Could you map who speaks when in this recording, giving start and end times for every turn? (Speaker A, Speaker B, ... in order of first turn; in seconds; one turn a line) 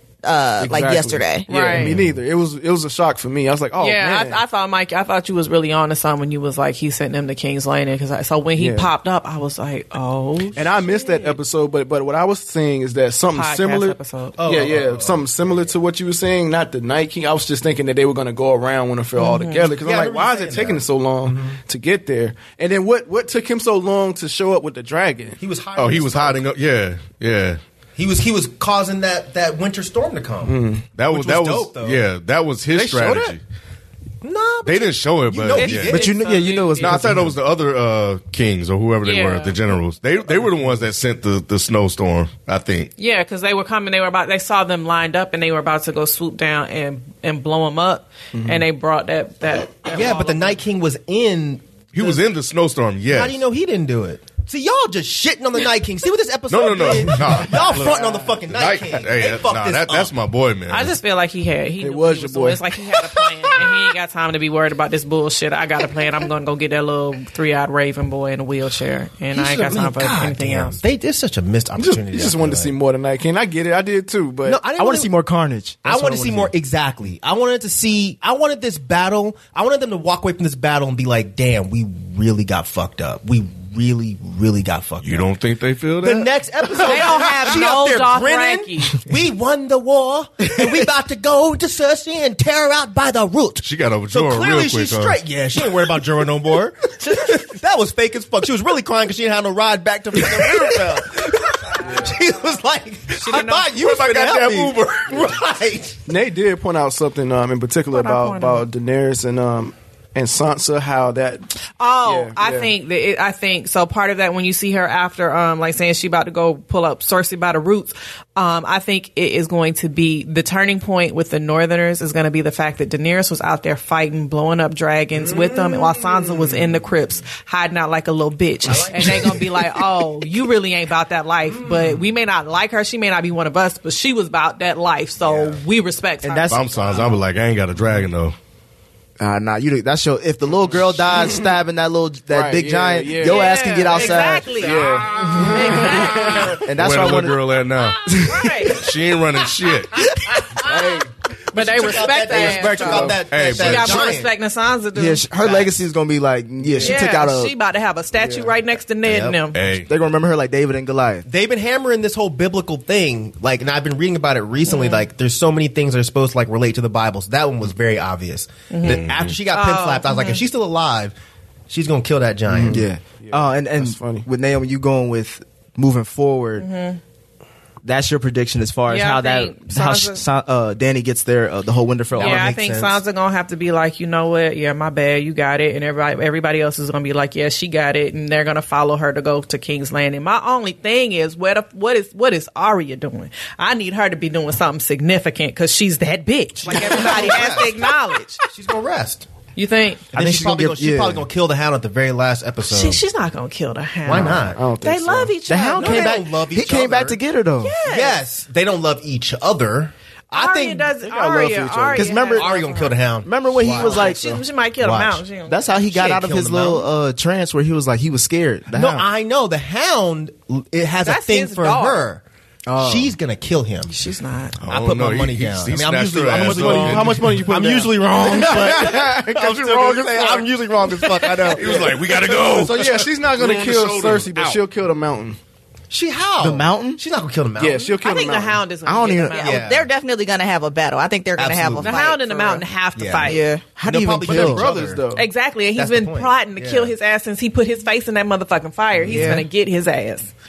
Speaker A: 0.2-1.5
Speaker B: 0.6-4.4
Speaker C: 1.5-1.9
Speaker C: 3.8-11.4
Speaker B: 8.6-8.9
Speaker B: 10.5-25.4
Speaker C: 13.3-14.4
Speaker D: 14.4-15.7
Speaker C: 19.1-19.6
Speaker D: 19.7-21.6
Speaker D: 25.4-26.4
Speaker E: 25.8-27.6
Speaker D: 28.0-32.0
Speaker B: 30.4-30.9
Speaker E: 30.9-33.4
Speaker B: 32.7-33.4
Speaker D: 34.2-36.2
Speaker E: 34.6-36.0
Speaker C: 35.5-37.0
Speaker F: 35.9-37.4
Speaker E: 36.8-42.9
Speaker C: 39.0-39.6
Speaker C: 43.0-50.6
Speaker B: 48.3-48.6
Speaker D: 49.9-52.2
Speaker E: 51.9-53.4
Speaker D: 53.1-60.1
Speaker E: 56.5-61.0
Speaker B: 57.7-58.1
Speaker C: 57.8-58.2
Speaker C: 60.7-70.8
Speaker B: 61.8-62.7
Speaker D: 69.3-72.7
Speaker B: 71.8-74.6
Speaker D: 74.4-75.1
Speaker F: 74.7-76.5
Speaker D: 75.8-85.3
Speaker E: 85.0-86.3
Speaker D: 86.0-106.0
Speaker C: 86.7-89.0
Speaker E: 93.6-95.2
Speaker B: 101.8-102.1
Speaker C: 103.2-103.8
Speaker E: 103.8-104.8
Speaker B: 106.1-111.5
Speaker C: 107.9-108.6
Speaker C: 111.8-136.6
Speaker B: 112.0-112.7
Speaker D: 125.2-126.0
Speaker D: 128.6-129.9
Speaker D: 131.6-132.0
Speaker D: 135.2-135.6
Speaker F: 136.2-137.0
Speaker E: 136.5-138.3
Speaker F: 139.2-144.6
Speaker B: 142.3-146.6
Speaker C: 143.2-146.6
Speaker F: 146.6-147.4
Speaker E: 146.6-148.1
Speaker F: 148.0-148.7
Speaker C: 148.1-148.9
Speaker E: 148.7-149.9
Speaker C: 149.9-150.7
Speaker B: 150.5-151.1
Speaker D: 151.5-154.3
Speaker C: 151.5-155.7
Speaker B: 152.3-153.2
Speaker E: 153.3-154.1
Speaker F: 154.9-157.5
Speaker B: 156.6-157.0
Speaker C: 156.8-159.6
Speaker B: 158.1-158.5
Speaker D: 159.0-159.4
Speaker E: 159.5-159.9
Speaker F: 159.8-161.2
Speaker D: 161.2-171.2
Speaker C: 164.7-165.1
Speaker C: 168.7-170.4
Speaker E: 168.8-169.4
Speaker D: 171.7-172.8
Speaker B: 172.5-174.3
Speaker F: 172.6-176.7
Speaker C: 176.6-177.0
Speaker F: 177.8-182.5
Speaker C: 178.9-180.2
Speaker D: 182.1-183.0
Speaker C: 182.2-198.4
Speaker D: 196.7-197.8
Speaker D: 198.5-199.3
Speaker C: 199.6-200.1
Speaker F: 200.1-201.3
Speaker D: 200.1-203.0
Speaker C: 202.7-206.2
Speaker D: 204.0-204.6
Speaker F: 204.1-204.4
Speaker B: 204.5-205.4
Speaker F: 205.5-207.7
Speaker D: 205.8-207.2
Speaker C: 207.6-208.2
Speaker D: 207.8-210.9
Speaker C: 210.3-212.9
Speaker B: 211.0-212.2
Speaker D: 212.0-214.2
Speaker F: 212.0-212.5
Speaker F: 213.2-214.3
Speaker C: 213.6-215.8
Speaker D: 214.8-215.2
Speaker F: 215.5-219.1
Speaker D: 215.9-216.9
Speaker D: 218.7-222.2
Speaker C: 221.0-222.0
Speaker F: 222.7-223.2
Speaker D: 222.8-223.9
Speaker C: 223.9-224.6
Speaker E: 224.6-227.4
Speaker D: 224.7-232.7
Speaker B: 226.4-235.4
Speaker E: 231.2-234.6
Speaker D: 235.9-237.9
Speaker F: 236.4-237.0
Speaker B: 237.6-238.6
Speaker C: 238.0-239.6
Speaker F: 238.8-239.4
Speaker D: 239.3-239.9
Speaker A: 239.4-242.6
Speaker D: 241.3-242.0
Speaker C: 241.8-243.4
Speaker D: 242.9-245.0
Speaker A: 243.2-243.7
Speaker F: 243.8-244.7
Speaker B: 244.2-245.3
Speaker C: 245.1-250.3
Speaker D: 245.7-246.9
Speaker D: 249.0-249.4
Speaker F: 249.1-249.4